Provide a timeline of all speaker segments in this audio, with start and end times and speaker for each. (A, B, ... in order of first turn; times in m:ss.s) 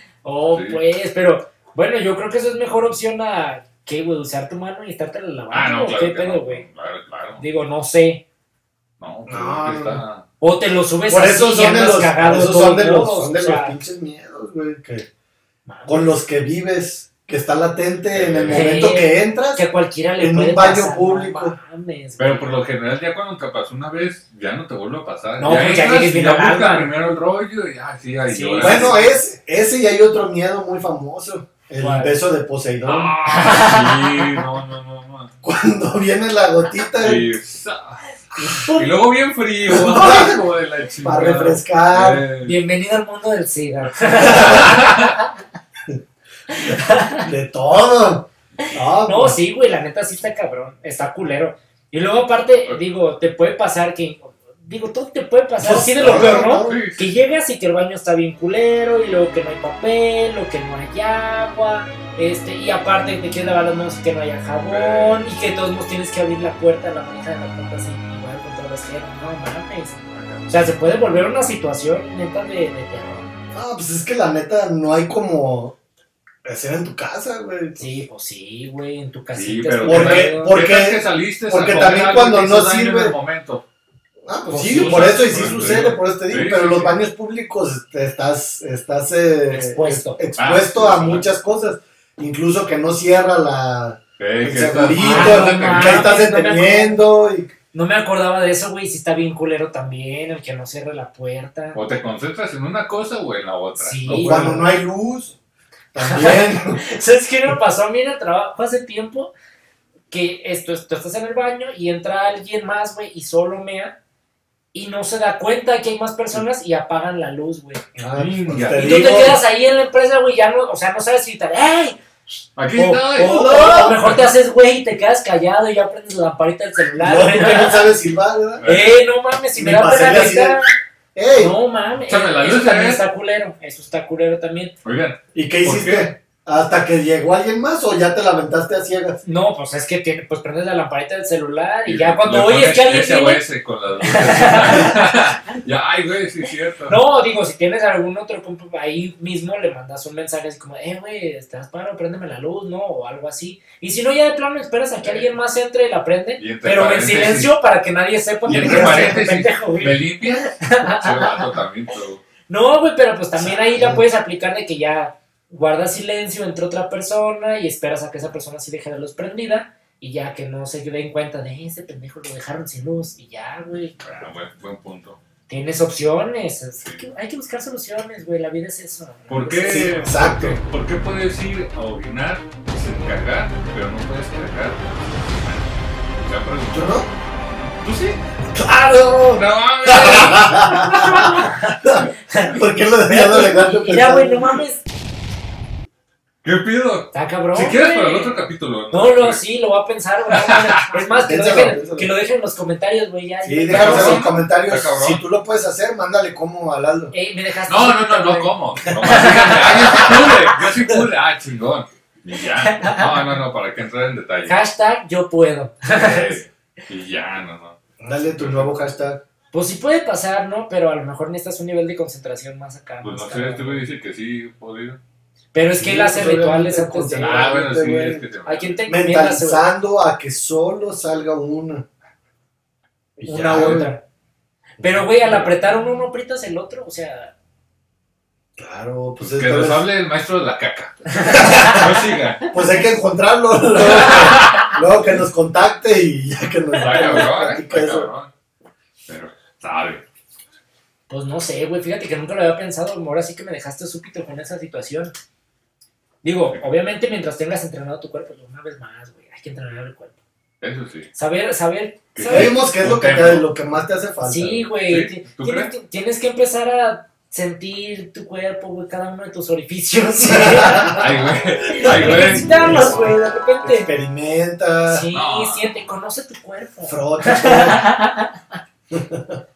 0:00.2-0:06.6 A
0:00.5-0:00.8 B
0:05.5-0:07.4 B
0:07.4-0:08.2 A
0:09.0-0:10.2 B
0:09.3-0:10.0 C
0:10.4-0:13.8 A
0:11.1-0:15.1 C
0:15.7-0:16.2 A
0:15.9-0:19.6 C
0:18.1-0:18.7 B
0:18.5-0:22.5 A
0:20.2-0:21.6 C
0:22.2-0:29.1 B
0:25.4-0:26.9 A
0:28.3-0:29.0 A
0:28.6-0:33.1 C
0:31.8-0:32.1 A
0:32.8-0:35.3 B
0:33.2-0:34.4 A
0:35.4-0:37.3 C
0:37.0-0:42.6 B
0:38.4-0:38.7 C
0:39.6-0:40.4 C
0:41.0-0:42.2 C
0:42.4-0:45.3 A
0:44.1-0:45.1 B
0:44.2-0:44.7 C
0:46.5-0:47.3 A
0:46.6-0:49.4 C
0:49.1-1:13.3 A
0:55.6-0:56.8 C
0:56.0-0:57.1 B
1:04.7-1:05.2 B
1:10.1-1:10.5 B
1:13.5-1:15.8 C
1:16.4-1:17.9 C
1:17.8-1:20.6 A
1:19.3-1:23.6 B
1:19.9-1:23.1 C
1:24.3-1:37.5 C
1:24.5-1:25.3 A
1:24.5-1:27.0 B
1:29.5-1:30.2 A
1:30.4-1:31.3 B
1:34.2-1:36.1 B
1:35.0-1:37.0 A
1:37.7-1:41.8 A
1:41.7-1:44.6 B
1:43.8-1:44.7 A
1:44.1-1:45.4 C
1:45.9-1:46.8 C
1:46.0-1:49.3 A
1:50.1-1:54.0 A
1:54.7-1:57.8 A
1:57.9-1:59.4 C
1:58.2-1:59.3 B
1:58.7-2:02.0 A
2:02.6-2:04.3 B
2:02.7-2:07.9 A
2:03.2-2:03.9 C
2:06.9-2:08.6 C
2:08.6-2:08.9 B
2:08.6-2:10.7 A
2:09.6-2:10.6 C
2:11.1-2:11.5 C
2:11.4-2:14.7 A
2:12.1-2:13.0 B
2:14.8-2:16.1 B
2:15.3-2:19.2 C
2:19.2-2:23.4 A
2:21.9-2:27.0 B
2:24.0-2:25.2 A
2:26.9-2:41.4 A
2:35.0-2:35.3 B
2:36.4-2:37.5 B
2:38.5-2:39.2 C
2:38.5-2:42.2 B
2:42.5-2:54.0 A
2:43.4-2:44.0 C
2:54.0-2:55.2 B
2:55.5-3:00.2 A
2:56.8-2:57.1 B
2:59.3-3:08.2 B
2:59.6-3:00.6 C
3:06.7-3:07.1 C
3:08.5-3:14.6 C
3:09.3-3:11.4 B
3:10.8-3:14.8 A
3:16.4-3:19.4 B
3:17.1-3:24.3 A
3:20.3-3:20.9 B
3:21.1-3:22.1 C
3:23.4-3:27.1 C
3:23.7-3:25.2 B
3:27.1-3:30.5 A
3:27.7-3:34.6 B
3:32.6-3:33.1 A
3:34.4-3:36.4 A
3:35.9-3:37.8 B
3:38.0-3:39.2 C
3:38.3-3:38.8 B
3:39.5-3:43.8 A
3:43.0-3:45.0 B
3:45.5-3:47.6 A
3:45.8-3:48.2 C
3:47.2-3:48.8 B
3:48.4-3:49.6 A
3:48.9-3:51.9 C
3:53.2-3:53.9 C
3:53.3-3:54.0 A
3:54.8-3:55.5 C
3:54.8-3:57.3 A
3:58.6-3:59.9 C
3:59.2-4:02.5 B
4:01.1-4:01.8 A
4:01.3-4:01.9 C
4:02.5-4:08.1 C
4:03.9-4:04.8 B
4:04.0-4:04.8 A
4:06.8-4:08.3 B
4:09.1-4:10.0 B
4:11.1-4:15.1 A
4:16.2-4:20.2 A
4:20.6-4:21.1 B
4:21.1-4:22.5 A
4:22.1-4:23.5 B
4:22.3-4:24.6 C
4:24.2-4:33.9 A
4:24.9-4:25.7 B
4:30.2-4:31.2 C
4:30.9-4:32.9 B
4:31.7-4:35.1 C
4:34.9-4:38.4 A
4:35.1-4:35.9 B
4:36.9-4:37.9 C
4:38.9-4:39.4 C